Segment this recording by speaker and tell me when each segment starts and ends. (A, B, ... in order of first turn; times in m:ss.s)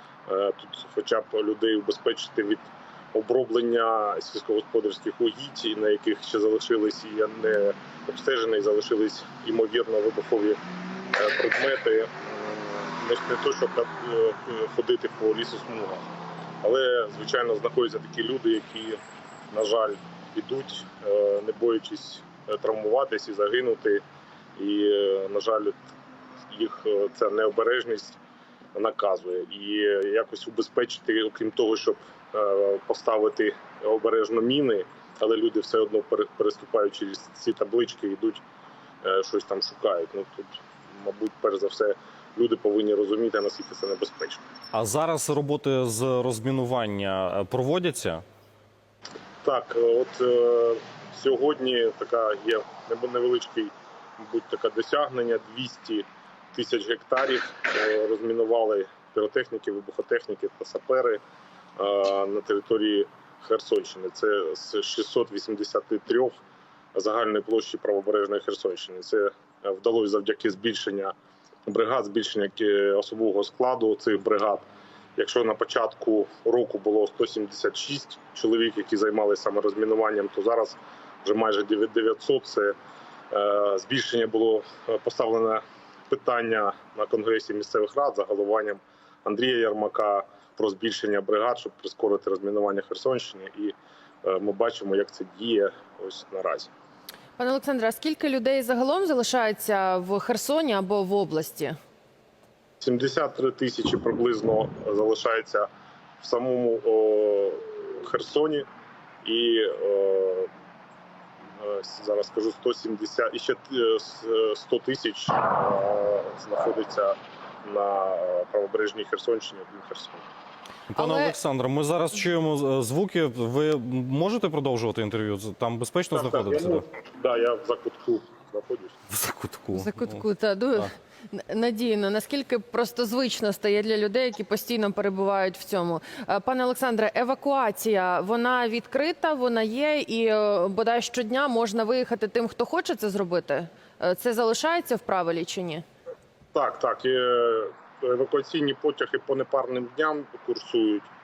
0:00.2-0:10.6 A
0:11.1-0:16.1 A
0:16.6-0:19.0 A
0:19.5-0:24.0 A
0:24.6-0:25.8 A
0:26.5-0:28.2 A
0:28.7-0:38.4 A
0:39.0-0:44.4 A
0:44.7-0:48.2 B
0:49.4-1:01.2 A
1:01.8-1:06.4 A
1:06.9-1:11.1 A
1:11.7-1:22.7 A
1:23.3-1:36.7 A
1:37.4-1:41.8 C
1:42.8-1:45.7 A
1:46.2-1:48.6 A
1:49.2-1:50.5 A
1:51.6-2:00.2 A
2:00.9-2:06.8 B
2:01.0-2:01.3 C
2:06.1-2:09.0 A
2:09.1-2:10.2 B
2:09.7-2:25.8 C
2:26.5-2:31.1 A